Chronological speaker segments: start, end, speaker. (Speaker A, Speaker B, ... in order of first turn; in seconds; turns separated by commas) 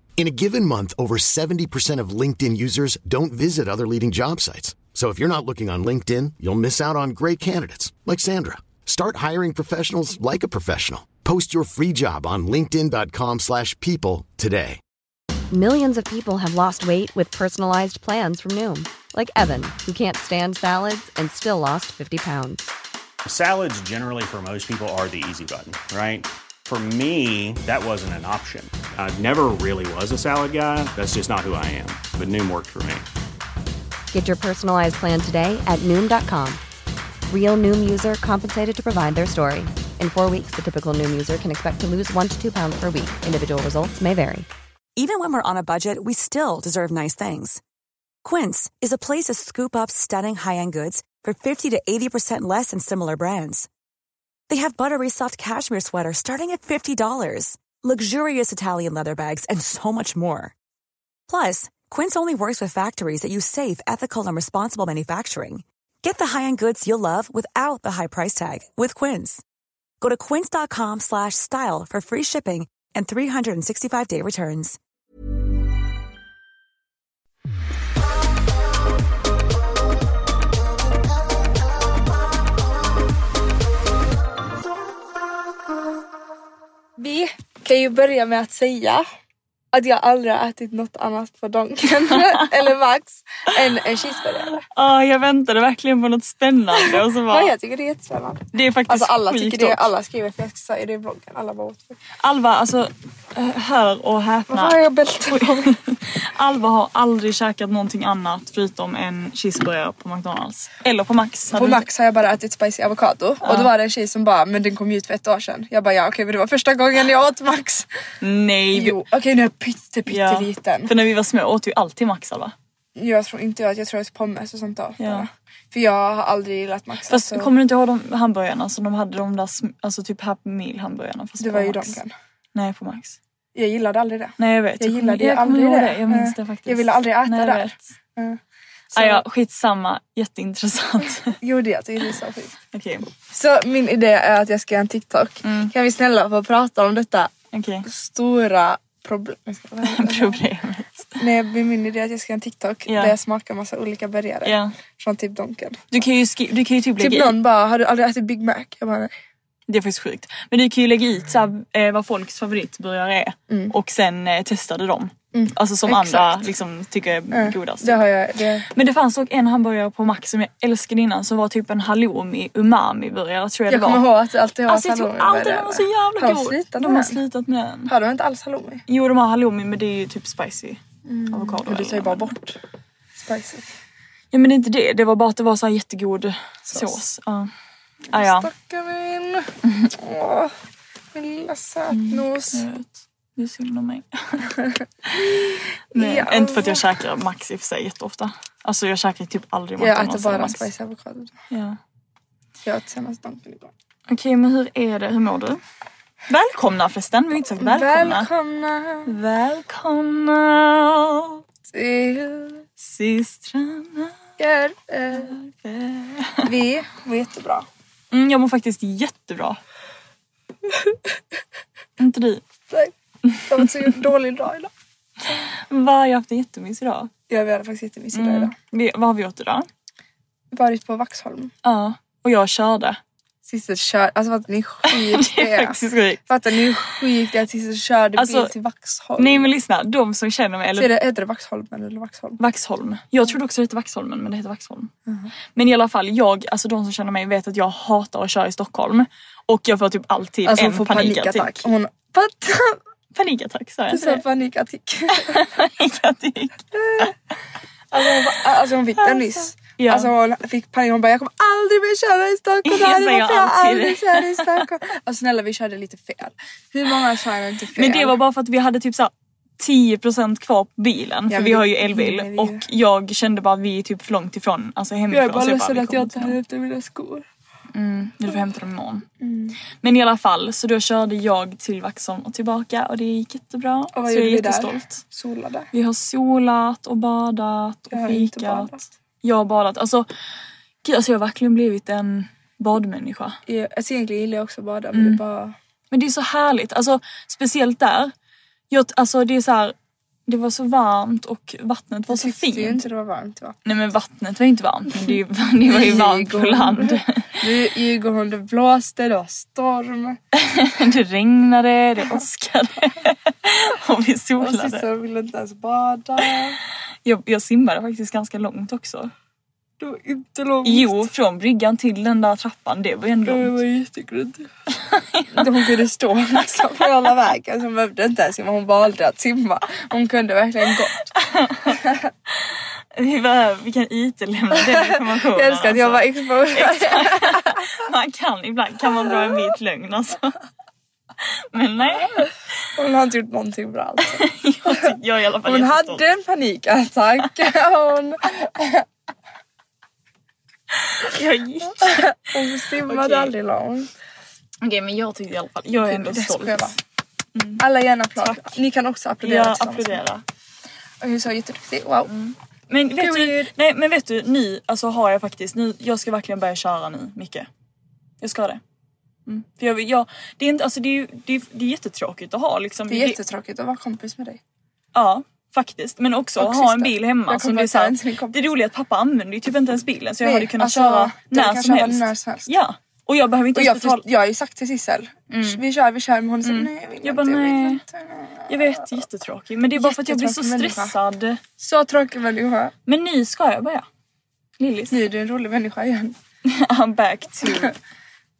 Speaker A: 0.2-14.8, Speaker B: 15.5-22.6, Speaker C: 23.2-33.0, Speaker B: 34.1-36.6, Speaker B: 37.3-44.5, Speaker D: 45.0-47.6, Speaker D: 48.2-53.7, Speaker D: 54.5-60.5, Speaker D: 61.3-69.4, Speaker D: 70.0-74.8, Speaker E: 87.0-89.0, Speaker E: 89.7-94.6, Speaker F: 94.7-97.5, Speaker E: 96.8-102.0, Speaker F: 98.5-99.9, Speaker F: 102.2-111.9, Speaker E: 104.5-105.7, Speaker E: 111.5-117.9, Speaker F: 113.4-113.7, Speaker F: 118.2-119.0, Speaker E: 118.7-120.9, Speaker F: 120.1-122.5, Speaker E: 123.0-127.5, Speaker F: 125.0-125.2, Speaker F: 127.1-132.0, Speaker E: 131.4-132.1, Speaker F: 132.5-133.2, Speaker E: 133.5-138.4, Speaker F: 134.4-137.9, Speaker E: 138.9-139.2, Speaker F: 138.9-141.4, Speaker E: 141.4-142.5, Speaker F: 142.7-143.1, Speaker E: 143.3-147.3, Speaker F: 145.4-145.7, Speaker F: 147.5-147.8, Speaker E: 147.8-150.4, Speaker F: 149.8-151.2, Speaker E: 151.2-155.8, Speaker F: 152.9-153.2, Speaker F: 154.4-154.7, Speaker F: 155.9-157.3, Speaker E: 157.0-159.1, Speaker F: 159.7-168.0, Speaker E: 165.3-166.5, Speaker E: 167.3-168.7, Speaker F: 168.7-174.1, Speaker E: 173.7-177.2, Speaker F: 174.7-177.9, Speaker E: 177.9-178.8, Speaker F: 178.9-182.4, Speaker E: 181.0-182.6, Speaker E: 183.2-183.7, Speaker F: 184.3-187.5, Speaker E: 186.7-187.0, Speaker E: 188.1-190.5, Speaker F: 188.1-188.5, Speaker E: 191.1-192.7, Speaker F: 191.9-194.5, Speaker F: 195.0-195.3, Speaker E: 195.1-196.8, Speaker F: 195.9-200.7, Speaker E: 199.8-201.3, Speaker F: 201.5-201.8, Speaker E: 202.6-203.7, Speaker F: 204.1-205.6, Speaker F: 206.3-208.3, Speaker E: 207.6-209.1, Speaker F: 209.1-211.4, Speaker E: 211.7-212.6, Speaker F: 212.8-214.1, Speaker E: 214.4-215.4, Speaker F: 215.1-216.5, Speaker E: 216.4-217.7, Speaker F: 218.1-219.6, Speaker F: 222.0-222.4, Speaker E: 222.7-224.7, Speaker F: 223.3-223.9, Speaker F: 225.3-227.1, Speaker E: 227.3-228.5, Speaker F: 228.1-229.7, Speaker E: 230.5-231.5, Speaker F: 231.6-233.0, Speaker E: 233.4-239.5, Speaker F: 234.9-236.6, Speaker F: 238.2-238.5, Speaker F: 239.2-240.9, Speaker E: 240.8-242.4, Speaker F: 242.4-244.9, Speaker F: 245.5-251.7, Speaker E: 250.4-252.8, Speaker F: 253.1-254.2, Speaker E: 253.9-255.6, Speaker F: 255.1-257.1, Speaker E: 256.7-257.2, Speaker E: 257.9-268.2, Speaker F: 259.0-260.1, Speaker F: 262.6-264.7, Speaker F: 267.7-276.4, Speaker E: 271.3-272.6, Speaker E: 275.1-277.2, Speaker F: 277.7-279.1, Speaker E: 279.2-279.6, Speaker F: 279.8-285.0, Speaker E: 283.9-285.7, Speaker F: 285.7-288.7, Speaker E: 287.9-288.9, Speaker F: 289.2-290.1, Speaker F: 290.8-293.4, Speaker E: 293.4-295.5, Speaker F: 294.9-295.2, Speaker F: 295.9-298.1, Speaker F: 298.7-299.7, Speaker F: 300.3-302.8, Speaker E: 302.1-303.6, Speaker F: 303.6-307.4, Speaker E: 305.0-310.2, Speaker F: 310.3-314.9, Speaker E: 314.4-316.6, Speaker F: 317.0-319.1, Speaker E: 319.8-321.1, Speaker F: 320.6-323.6, Speaker E: 323.2-324.5, Speaker F: 324.7-325.5, Speaker E: 325.3-331.1, Speaker F: 331.1-331.8, Speaker E: 331.7-332.0, Speaker F: 332.4-340.4, Speaker E: 334.5-337.8, Speaker F: 341.2-342.3, Speaker E: 342.7-348.9, Speaker F: 344.0-346.0, Speaker F: 350.8-352.1, Speaker E: 351.8-353.9, Speaker F: 352.7-353.3, Speaker F: 354.6-356.8, Speaker E: 355.7-356.8, Speaker F: 357.3-357.6, Speaker E: 357.6-360.0, Speaker F: 358.2-358.5, Speaker F: 359.2-360.2, Speaker E: 361.0-362.1, Speaker F: 362.1-367.5, Speaker E: 362.9-363.5, Speaker F: 368.2-368.6, Speaker F: 369.2-373.2, Speaker E: 372.9-374.4, Speaker F: 374.9-384.0, Speaker E: 376.4-378.4, Speaker E: 380.2-382.5, Speaker E: 383.5-389.0, Speaker F: 385.3-385.6, Speaker F: 386.4-387.8, Speaker F: 388.5-391.4, Speaker E: 389.7-390.9, Speaker E: 391.6-392.7, Speaker F: 392.9-393.9, Speaker F: 394.6-395.0, Speaker E: 394.9-396.1, Speaker F: 396.4-397.7, Speaker E: 397.4-397.7